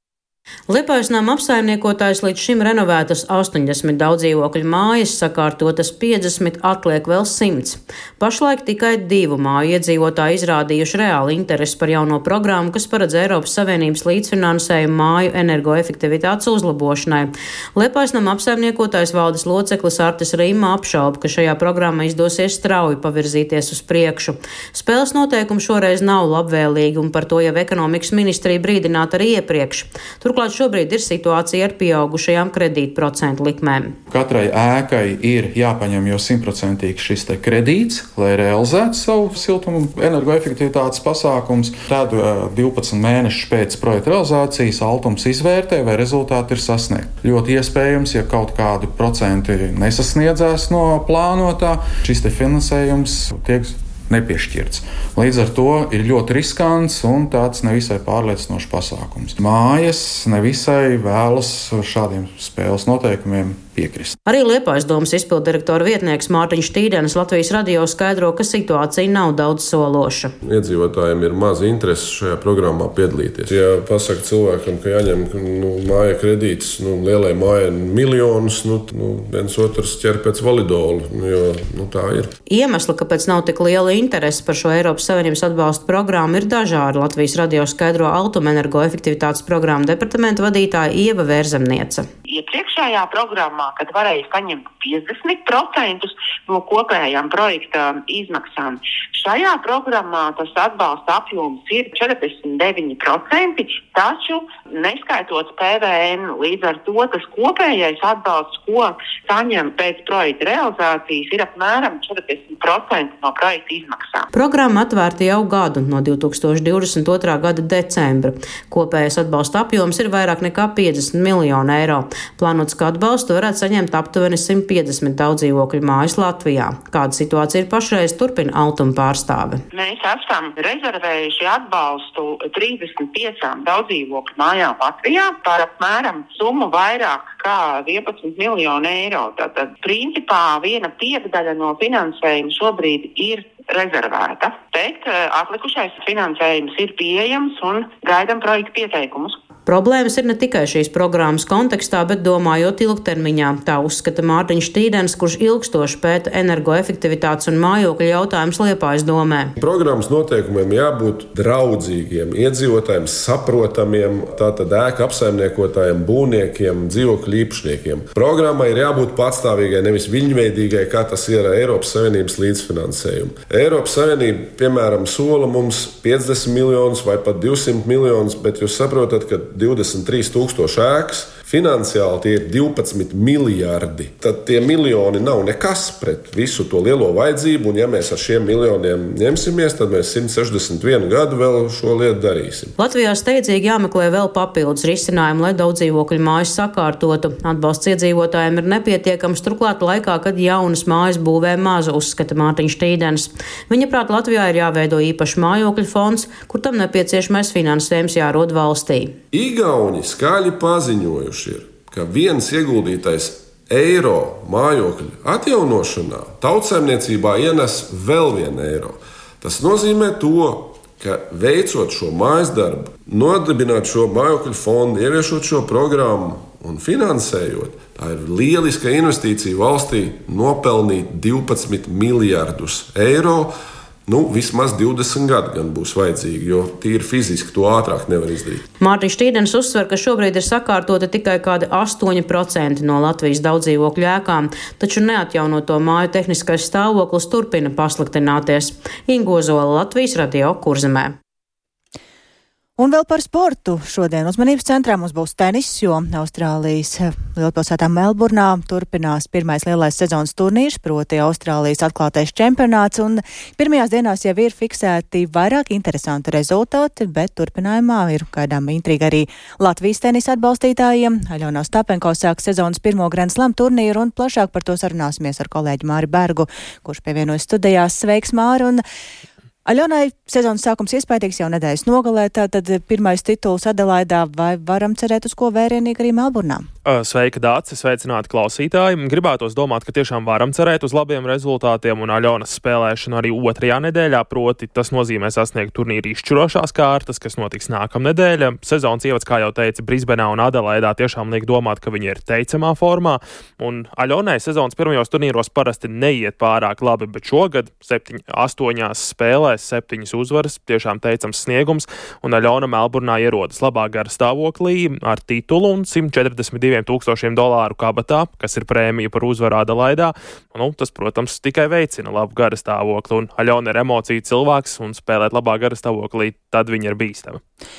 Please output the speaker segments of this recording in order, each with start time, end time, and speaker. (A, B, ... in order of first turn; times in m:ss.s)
0:00.7-0:33.9 A
0:34.1-1:04.2 B
1:04.2-1:10.3 A
1:10.4-1:22.3 C
1:22.5-1:32.1 A
1:32.3-1:54.3 D
1:54.3-2:09.6 A
2:09.7-2:29.4 D
2:29.6-2:39.5 A
2:39.6-3:12.7 C
3:12.8-3:29.1 A
3:29.3-3:53.5 C
3:54.1-3:58.6 C
3:58.8-4:11.2 A
4:12.8-4:38.8 E
4:39.6-4:46.6 E
4:46.8-5:27.4 F